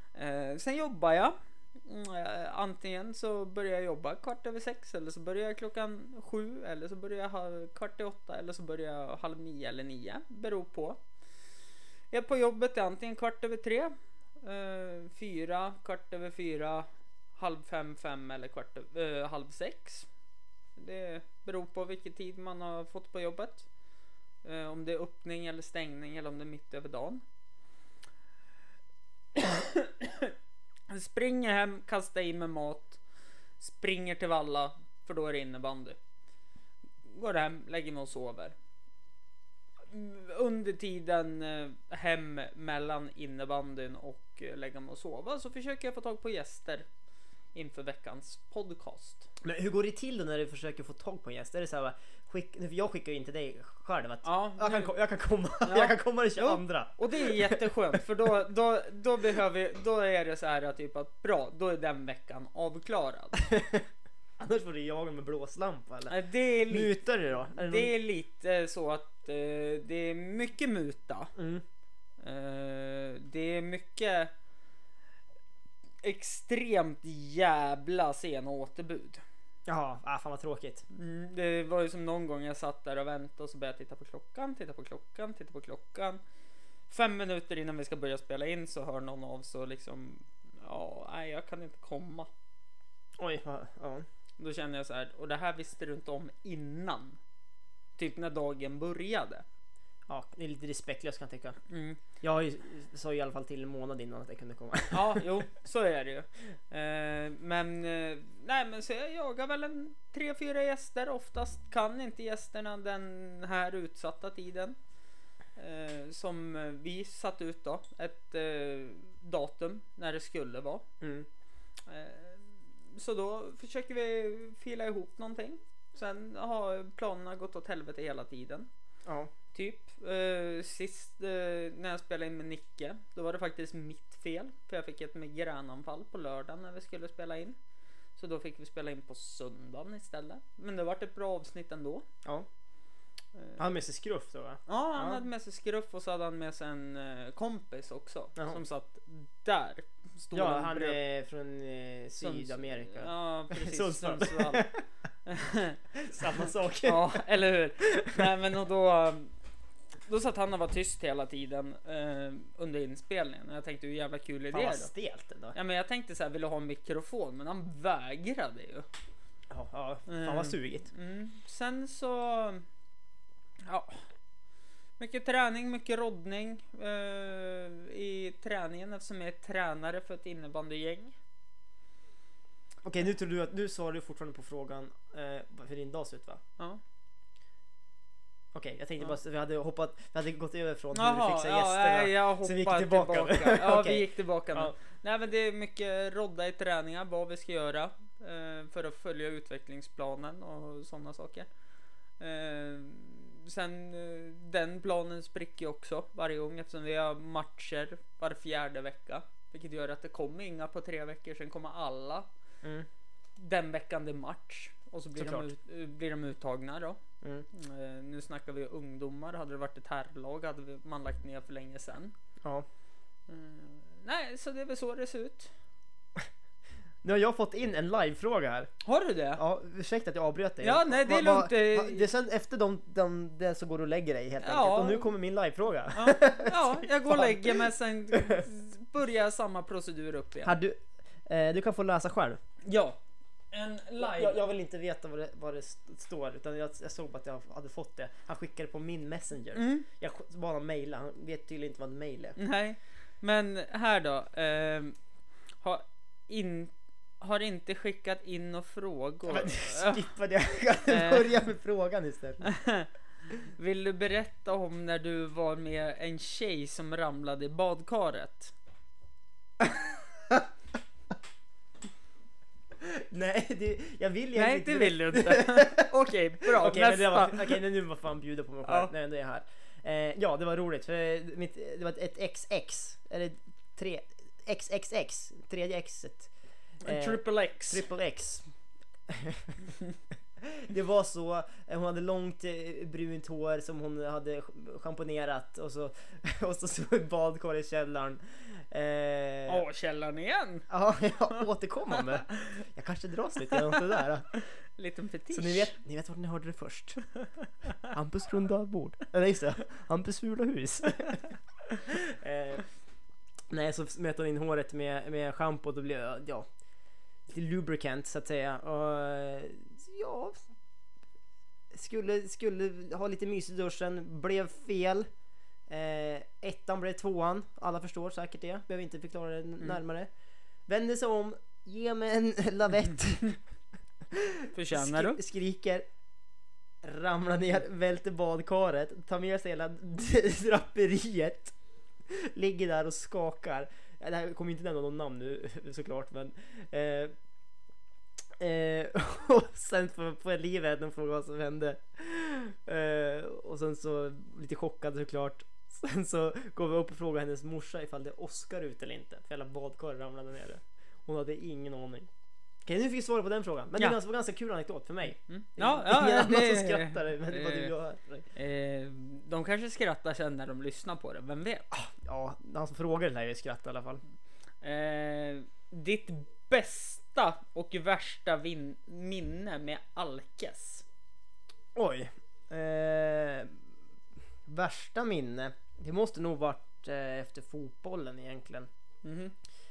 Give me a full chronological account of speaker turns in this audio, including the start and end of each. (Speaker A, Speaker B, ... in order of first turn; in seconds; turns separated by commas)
Speaker A: 0.1-11.0, Speaker A: 12.1-20.1, Speaker A: 20.8-23.7, Speaker A: 24.4-27.2, Speaker A: 29.3-30.3, Speaker A: 30.9-33.0, Speaker A: 33.6-36.0, Speaker A: 37.0-38.5, Speaker A: 39.9-46.9, Speaker A: 47.5-49.3, Speaker B: 49.4-57.7, Speaker A: 54.2-54.9, Speaker A: 55.6-63.5, Speaker B: 63.5-63.8, Speaker B: 64.4-67.9, Speaker A: 66.1-66.9, Speaker A: 67.5-71.3, Speaker B: 71.3-71.6, Speaker A: 72.2-74.3, Speaker A: 76.0-79.2, Speaker B: 79.7-80.8, Speaker A: 80.9-86.2, Speaker A: 86.9-92.3, Speaker B: 93.2-94.0, Speaker A: 94.4-97.2, Speaker A: 98.0-99.4, Speaker B: 100.1-101.6, Speaker A: 101.7-102.0, Speaker B: 102.2-105.3, Speaker A: 104.9-114.8, Speaker A: 115.5-120.8, Speaker B: 121.0-121.3, Speaker A: 121.8-128.7, Speaker A: 129.5-137.6, Speaker A: 138.2-142.0, Speaker B: 143.6-145.2, Speaker A: 144.7-151.0, Speaker B: 150.3-154.8, Speaker A: 152.2-154.6, Speaker A: 155.2-155.8, Speaker B: 155.9-157.2, Speaker A: 156.8-159.3, Speaker A: 160.1-164.9, Speaker B: 164.5-165.6, Speaker A: 165.5-168.9, Speaker B: 169.5-170.9, Speaker A: 170.1-172.6, Speaker A: 173.6-174.0, Speaker A: 175.0-181.1, Speaker B: 182.8-186.4, Speaker B: 188.5-194.7, Speaker A: 190.9-201.5, Speaker A: 202.2-212.3, Speaker A: 213.4-217.0, Speaker B: 215.2-215.5, Speaker A: 217.5-222.1, Speaker A: 223.3-225.5, Speaker B: 227.0-228.7, Speaker A: 228.8-229.4, Speaker B: 229.3-238.4, Speaker A: 230.6-232.1, Speaker A: 234.4-235.1, Speaker A: 235.9-240.5, Speaker B: 240.4-242.4, Speaker A: 242.6-243.0, Speaker A: 243.5-244.4, Speaker B: 244.0-252.4, Speaker A: 249.5-249.8, Speaker A: 252.4-254.9, Speaker A: 255.6-260.1, Speaker B: 259.3-262.5, Speaker A: 260.9-261.3, Speaker A: 262.4-262.9, Speaker A: 263.4-268.5, Speaker B: 272.8-275.9, Speaker A: 274.3-277.6, Speaker B: 276.4-286.3, Speaker A: 278.6-278.9, Speaker A: 286.8-287.8, Speaker B: 286.8-288.5, Speaker B: 289.1-289.6, Speaker B: 290.4-299.6, Speaker A: 299.5-300.7, Speaker B: 300.7-304.3, Speaker A: 304.8-305.7, Speaker B: 305.3-307.0, Speaker B: 307.8-312.6, Speaker B: 313.5-316.4, Speaker B: 317.3-320.4, Speaker B: 321.7-325.1, Speaker B: 325.7-330.1, Speaker B: 330.7-333.4, Speaker B: 334.1-335.9, Speaker A: 334.5-335.2, Speaker B: 336.8-341.5, Speaker B: 342.1-347.1, Speaker B: 348.4-362.1, Speaker B: 362.6-368.3, Speaker A: 365.2-367.7, Speaker A: 368.3-371.7, Speaker B: 371.7-374.0, Speaker A: 374.6-380.8, Speaker B: 381.7-383.6, Speaker B: 384.4-388.7, Speaker A: 389.0-389.3